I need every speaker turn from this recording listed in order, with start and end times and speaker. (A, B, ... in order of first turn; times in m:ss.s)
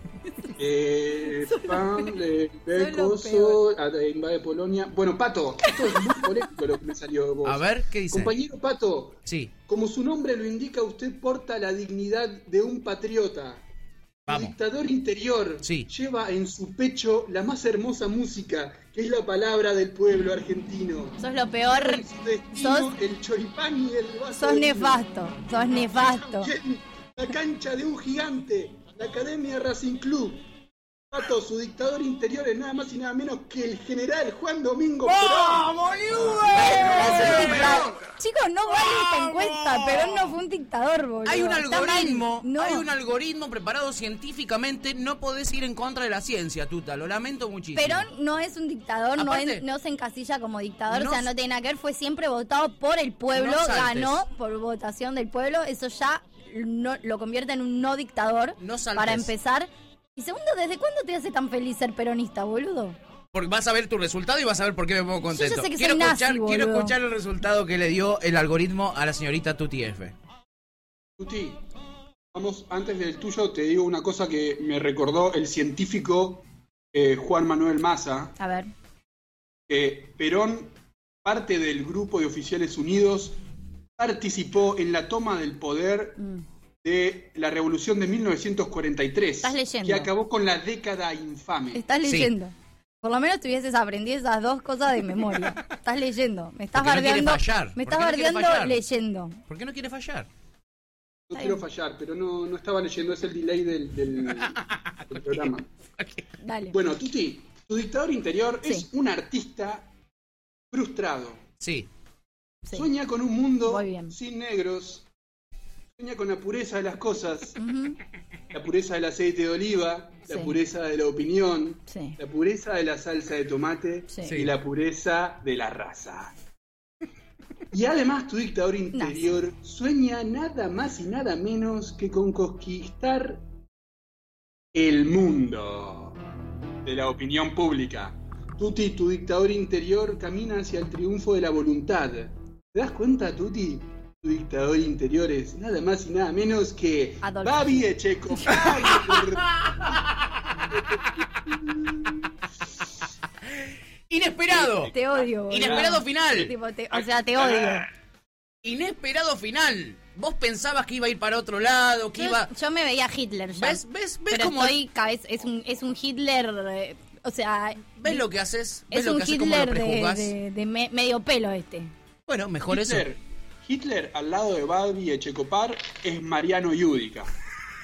0:00.6-0:13.6 A
0:01.4-0:02.2 B
0:02.7-0:03.6 B
0:05.6-0:06.4 B
0:07.4-0:08.4 C
0:09.2-0:09.5 C
0:14.3-0:14.6 C
0:14.3-0:25.0 A
0:15.6-0:15.9 C
0:21.2-0:22.9 B
0:24.4-0:26.5 B
0:25.6-0:30.4 A
0:31.1-0:35.7 A
0:35.0-0:38.0 C
0:36.3-0:37.7 A
0:36.6-0:42.8 B
0:38.7-0:40.3 C
0:41.2-0:48.1 C
0:47.7-1:03.0 B
0:49.2-0:49.6 C
0:50.9-0:51.3 C
0:53.3-0:54.2 C
0:58.6-0:59.3 C
1:03.3-1:10.1 C
1:05.3-1:06.9 B
1:11.2-1:11.6 A
1:12.3-1:18.3 A
1:18.4-1:18.7 B
1:19.7-1:23.4 A
1:24.0-1:26.2 A
1:26.8-1:31.8 A
1:29.4-1:30.1 B
1:31.7-1:39.4 B
1:32.0-1:32.3 C
1:36.7-1:38.8 C
1:39.5-1:40.3 C
1:41.3-1:45.7 A
1:41.3-1:41.6 B
1:44.3-1:46.2 C
1:46.4-1:46.8 B
1:46.7-1:49.9 A
1:50.7-1:51.4 A
1:51.6-1:51.9 C
1:52.7-1:55.0 A
1:53.6-1:54.1 B
1:56.0-1:57.6 A
1:57.6-1:58.0 B
1:58.5-2:06.3 A
2:00.3-2:00.5 B
2:01.9-2:02.2 B
2:04.1-2:04.4 B
2:04.2-2:04.5 C
2:07.7-2:13.4 A
2:08.9-2:09.3 B
2:14.7-2:16.2 A
2:16.8-2:30.0 A
2:27.2-2:28.5 B
2:28.5-2:30.4 C
2:33.4-2:34.9 C
2:34.5-2:37.8 A
2:34.9-2:37.8 B
2:35.5-2:36.5 C
2:38.6-2:42.5 C
2:42.2-2:48.2 B
2:43.5-2:44.8 C
2:48.0-2:50.3 C
2:48.9-2:51.9 B
2:52.3-2:53.0 C
2:52.7-2:57.3 A